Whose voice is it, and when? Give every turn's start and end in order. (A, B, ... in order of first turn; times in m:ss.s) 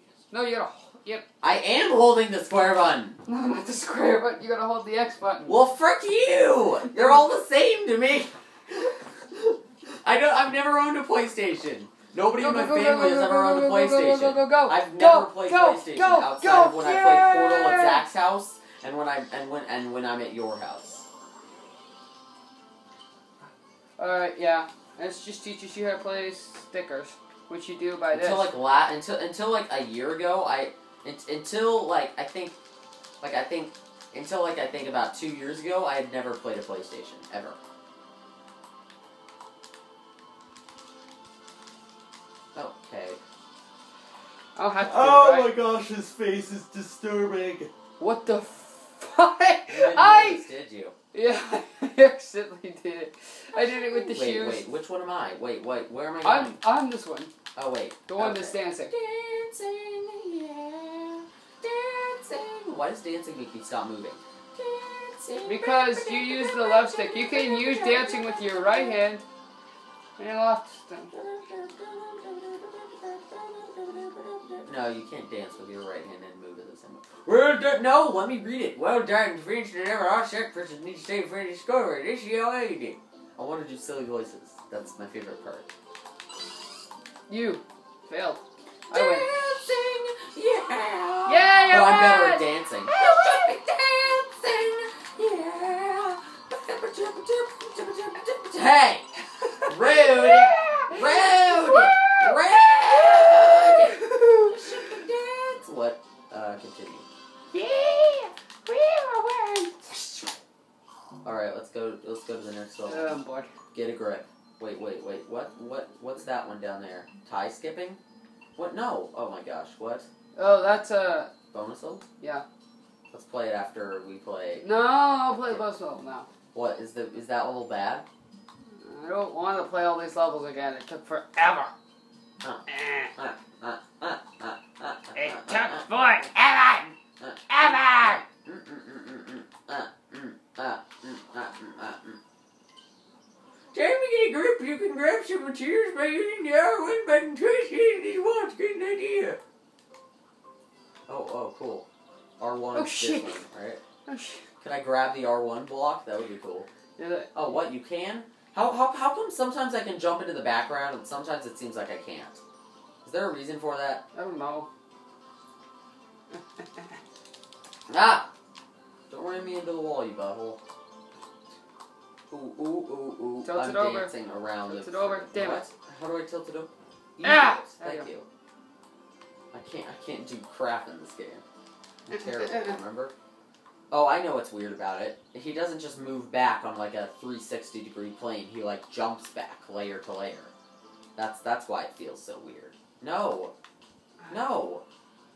0:00.3-0:01.3 A
0:01.4-0:03.2 B
0:03.3-0:05.6 A
0:05.4-0:21.1 B
0:12.4-0:18.1 A
0:24.0-0:28.5 A
0:28.1-0:32.6 B
0:33.2-0:37.6 B
0:42.5-0:43.2 B
0:44.6-0:45.5 A
0:44.8-0:47.7 B
0:48.0-0:50.4 A
0:49.7-0:51.0 B
0:51.1-0:54.6 A
0:53.6-0:56.6 B
0:56.2-0:57.3 A
0:57.6-1:09.0 B
0:58.1-0:58.9 A
1:05.4-1:09.2 A
1:10.2-1:11.1 A
1:11.1-1:25.7 B
1:27.3-1:29.3 A
1:28.9-1:39.1 B
1:31.3-1:33.4 A
1:39.4-1:45.0 A
1:39.6-1:47.1 B
1:47.5-1:50.4 A
1:51.2-1:53.1 B
1:52.8-1:53.5 A
1:53.7-1:58.0 B
1:58.6-2:00.1 B
2:00.4-2:01.3 A
2:01.5-2:02.1 B
2:03.1-2:04.7 B
2:04.6-2:06.3 A
2:05.3-2:05.7 B
2:06.5-2:08.1 B
2:08.7-2:11.7 A
2:12.4-2:15.9 B
2:12.7-2:13.1 A
2:15.1-2:16.9 A
2:17.2-2:22.2 B
2:17.5-2:18.2 A
2:23.7-2:29.4 B
2:31.1-2:31.9 B
2:32.4-2:33.8 B
2:32.7-2:33.4 A
2:34.1-2:34.4 A
2:34.6-2:36.7 B
2:37.0-2:37.6 A
2:37.3-2:42.4 B
2:43.0-2:44.0 B
2:44.1-2:44.7 A
2:46.3-2:47.0 A
2:47.9-2:48.3 B
2:49.1-2:50.6 B
2:52.3-2:58.3 B
2:53.4-2:54.1 A
2:54.7-2:55.6 A
2:57.2-2:58.1 A
2:59.5-3:01.4 B
3:02.1-3:03.1 B
3:03.9-3:10.5 B
3:11.2-3:13.5 B
3:14.3-3:14.8 B